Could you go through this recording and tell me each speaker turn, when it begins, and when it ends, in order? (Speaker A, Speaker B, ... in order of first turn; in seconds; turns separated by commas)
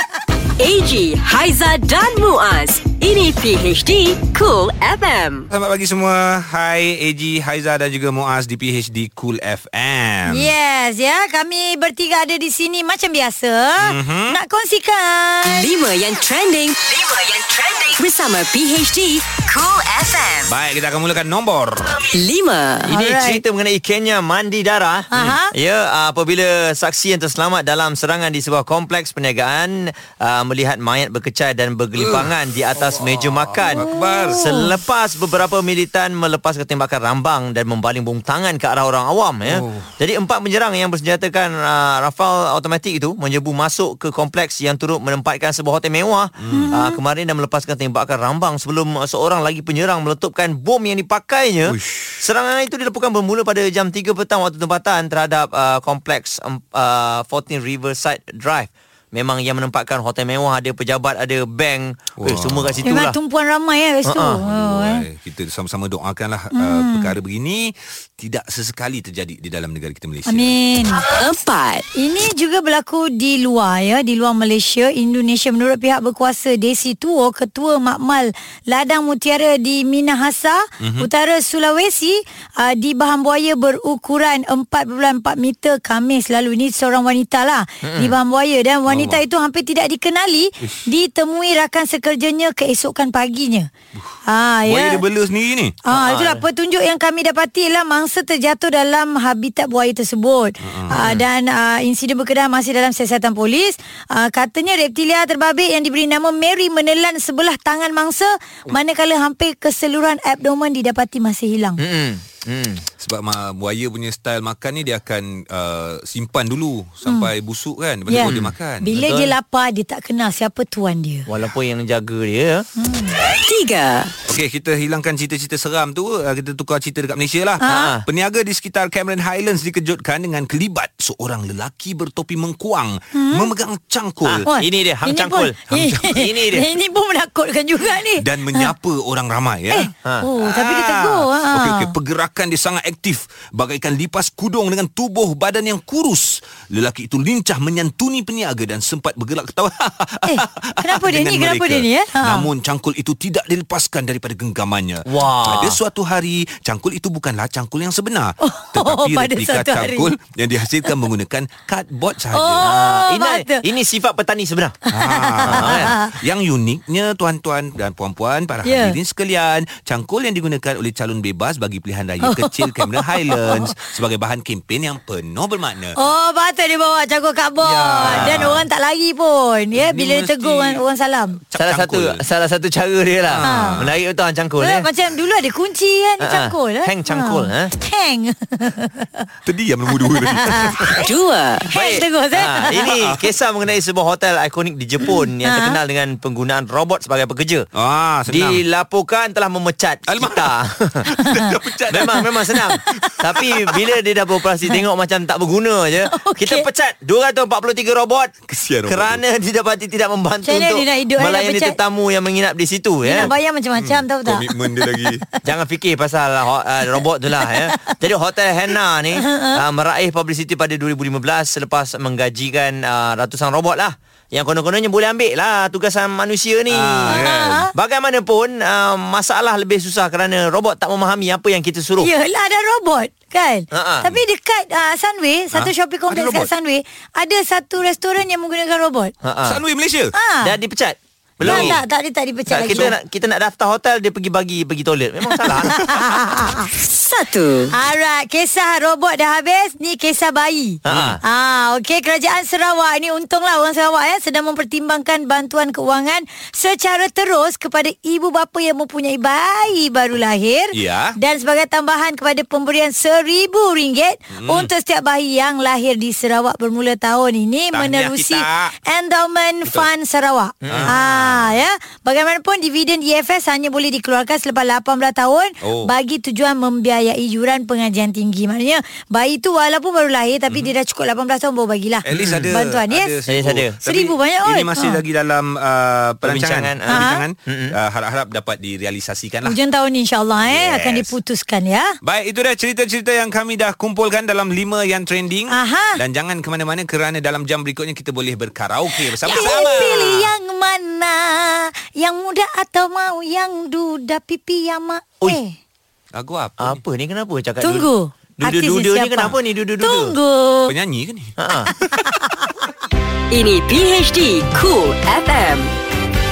Speaker A: 0.6-5.5, Speaker B: 5.5-10.5, Speaker C: 10.3-15.7, Speaker B: 13.8-14.4, Speaker A: 15.5-20.5, Speaker B: 20.5-22.0, Speaker A: 22.1-22.9, Speaker D: 22.9-63.2, Speaker C: 22.9-23.4, Speaker C: 25.1-25.5, Speaker B: 32.0-32.3, Speaker B: 32.9-34.6, Speaker C: 33.6-34.7, Speaker B: 39.5-39.9, Speaker B: 46.4-46.7, Speaker C: 46.5-47.0, Speaker B: 51.7-52.2, Speaker B: 62.2-62.9, Speaker C: 62.8-65.0, Speaker D: 64.0-64.4, Speaker B: 64.4-70.5, Speaker C: 66.5-67.1, Speaker C: 70.3-71.1, Speaker A: 71.0-71.9, Speaker C: 72.0-93.7, Speaker B: 80.8-81.1, Speaker D: 87.8-88.2, Speaker B: 88.9-89.2, Speaker C: 94.3-95.0, Speaker B: 94.7-96.4, Speaker C: 95.8-111.8, Speaker B: 100.6-101.2, Speaker D: 111.8-112.8, Speaker B: 113.0-118.9, Speaker C: 118.1-121.3, Speaker D: 118.2-119.3, Speaker D: 121.3-122.7, Speaker C: 122.8-123.2, Speaker A: 123.3-124.1, Speaker B: 124.3-134.5, Speaker C: 127.6-127.9, Speaker D: 127.7-128.1, Speaker C: 133.2-133.5, Speaker D: 134.2-136.7, Speaker C: 134.5-138.7, Speaker B: 135.7-136.1, Speaker B: 138.2-162.7, Speaker C: 139.7-141.9, Speaker C: 150.3-152.5, Speaker D: 155.1-155.8, Speaker C: 158.4-160.1, Speaker C: 162.3-163.7, Speaker D: 162.6-164.8, Speaker B: 164.9-176.0, Speaker C: 164.9-166.1, Speaker D: 165.4-166.0, Speaker C: 168.7-169.0, Speaker C: 172.2-173.7, Speaker C: 176.0-181.4, Speaker B: 177.6-178.7, Speaker D: 178.0-178.6, Speaker B: 179.8-180.8, Speaker B: 181.5-182.2, Speaker D: 181.6-184.9, Speaker B: 183.3-183.9, Speaker C: 183.4-183.8, Speaker C: 184.6-189.3, Speaker D: 186.2-187.7, Speaker B: 189.5-191.1, Speaker C: 190.0-191.0, Speaker A: 191.0-191.7, Speaker C: 191.7-192.9, Speaker D: 191.7-197.7, Speaker B: 193.0-193.2, Speaker C: 195.1-195.8, Speaker B: 197.8-198.6, Speaker D: 198.3-201.1, Speaker B: 200.1-202.3, Speaker D: 201.9-208.3, Speaker C: 206.1-206.7, Speaker B: 208.5-209.2, Speaker D: 208.9-213.3, Speaker C: 210.5-211.8, Speaker C: 213.0-215.4, Speaker B: 213.2-215.2, Speaker D: 215.4-232.1, Speaker C: 217.4-217.9, Speaker C: 219.2-219.6, Speaker B: 226.7-227.7, Speaker C: 227.1-227.7, Speaker C: 232.0-239.1, Speaker D: 233.7-234.1, Speaker B: 235.5-236.5, Speaker D: 239.2-239.6, Speaker B: 239.4-240.2, Speaker C: 240.2-240.5, Speaker D: 240.4-241.8, Speaker B: 241.4-241.8, Speaker C: 241.4-242.9, Speaker D: 242.5-245.8, Speaker C: 245.7-246.7, Speaker A: 246.8-247.7, Speaker C: 247.7-283.2, Speaker D: 250.8-251.2, Speaker B: 250.9-251.2, Speaker B: 260.7-261.2, Speaker B: 264.3-264.7, Speaker B: 267.7-268.7, Speaker D: 270.6-270.9, Speaker B: 270.7-271.6, Speaker B: 275.6-275.9, Speaker B: 282.1-289.6, Speaker D: 282.1-282.5, Speaker D: 283.3-283.8, Speaker C: 283.8-285.0, Speaker D: 286.2-287.8, Speaker C: 286.9-287.2, Speaker C: 289.5-292.0, Speaker B: 290.4-291.1, Speaker B: 292.0-300.3, Speaker C: 295.5-296.0, Speaker C: 298.9-305.6, Speaker D: 299.3-299.8, Speaker B: 306.1-306.8, Speaker D: 306.6-307.9, Speaker C: 307.6-310.7, Speaker D: 308.4-310.2, Speaker B: 310.7-311.3, Speaker D: 311.4-311.7, Speaker C: 312.0-312.5, Speaker A: 313.3-315.8